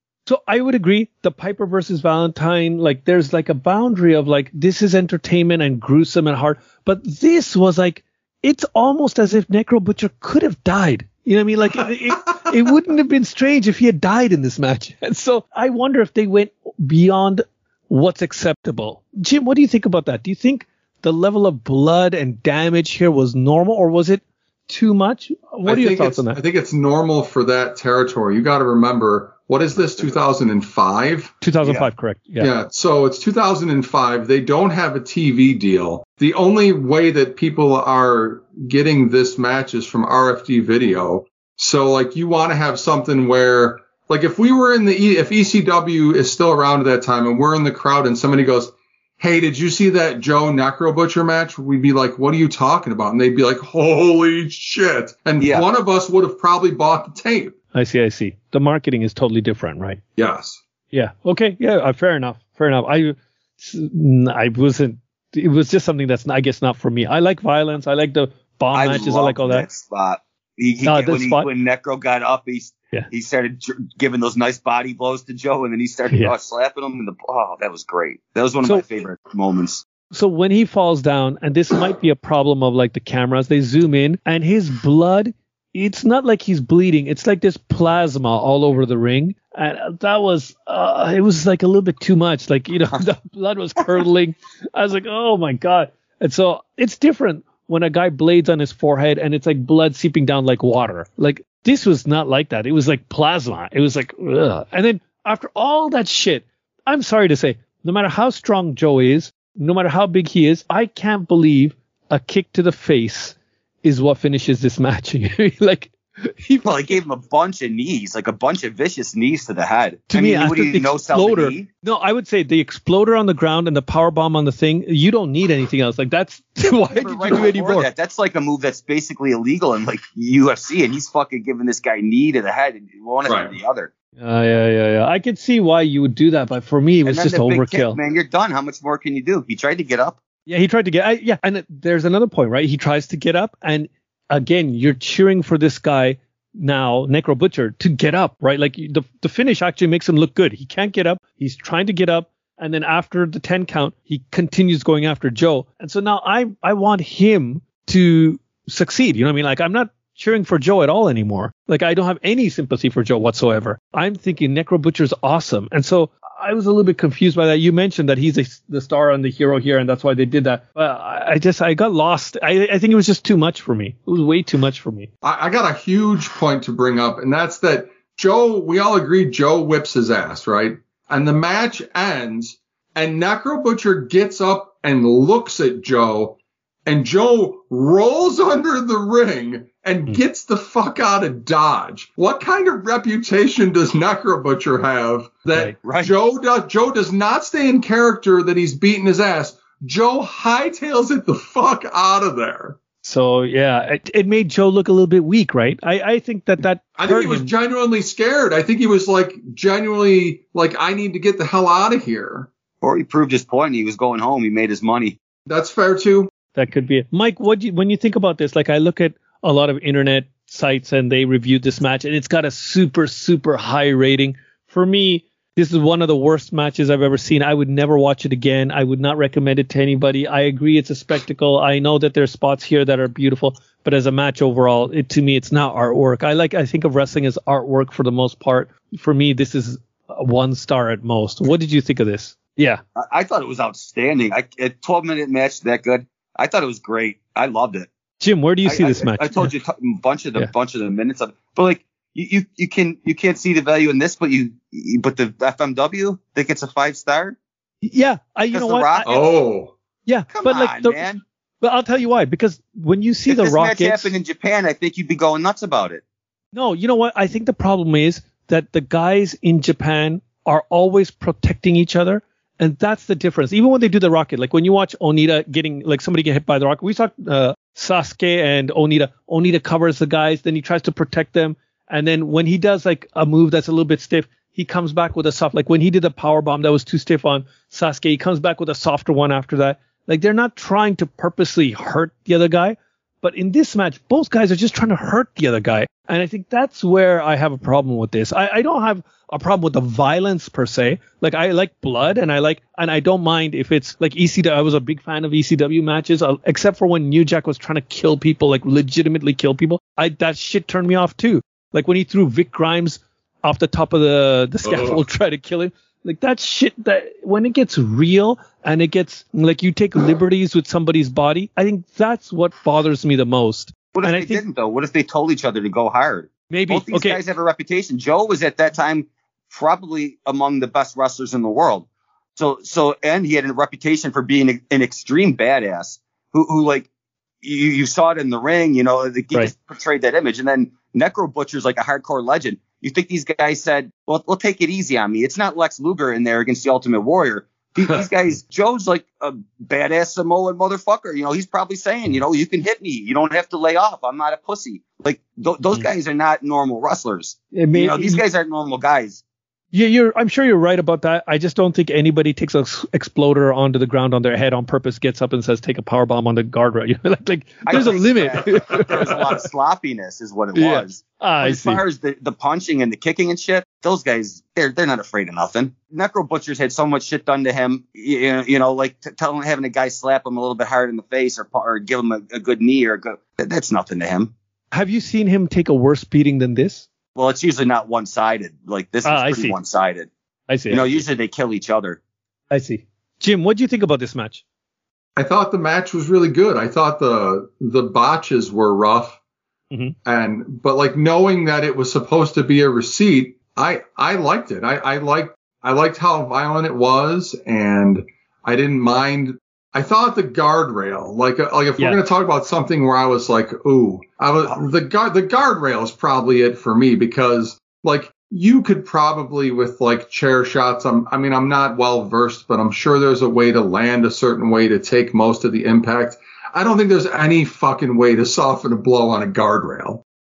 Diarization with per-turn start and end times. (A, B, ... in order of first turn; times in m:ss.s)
0:00.3-0:26.4 A
0:25.6-0:31.3 B
0:31.4-0:32.5 A
0:32.4-0:57.6 B
0:55.4-0:55.6 C
0:57.7-1:00.0 A
1:00.2-1:00.6 B
1:00.9-1:09.7 A
1:08.7-1:19.8 C
1:10.8-1:11.5 A
1:20.1-1:57.0 A
1:56.6-2:01.7 C
2:00.1-2:07.9 A
2:06.9-2:13.9 C
2:13.2-2:13.6 B
2:14.2-2:18.0 A
2:17.1-2:20.2 C
2:20.5-2:55.1 A
2:55.2-3:22.8 B
3:15.8-3:16.1 C
3:23.0-3:27.5 A
3:27.0-3:32.5 B
3:32.8-3:35.2 C
3:35.5-3:36.3 B
3:36.6-4:02.8 A
4:03.0-4:07.9 C
4:08.2-4:09.5 A
4:08.7-4:17.4 C
4:17.8-4:19.1 A
4:18.5-4:19.2 C
4:19.1-4:19.7 B
4:20.1-4:21.1 A
4:20.3-4:21.2 C
4:21.6-4:24.1 A
4:23.3-4:26.0 C
4:26.5-5:24.4 A
5:14.6-5:15.0 B
5:23.9-5:36.9 C
5:26.5-5:27.2 A
5:37.4-5:59.2 C
5:57.5-5:58.2 A
5:59.7-6:09.5 A
6:07.7-6:24.3 C
6:10.5-6:11.8 A
6:24.7-6:26.9 A
6:27.2-6:30.1 C
6:29.0-6:29.6 A
6:30.5-6:31.0 A
6:30.7-6:32.0 C
6:32.5-6:34.4 A
6:35.2-6:39.2 B
6:40.1-7:10.0 B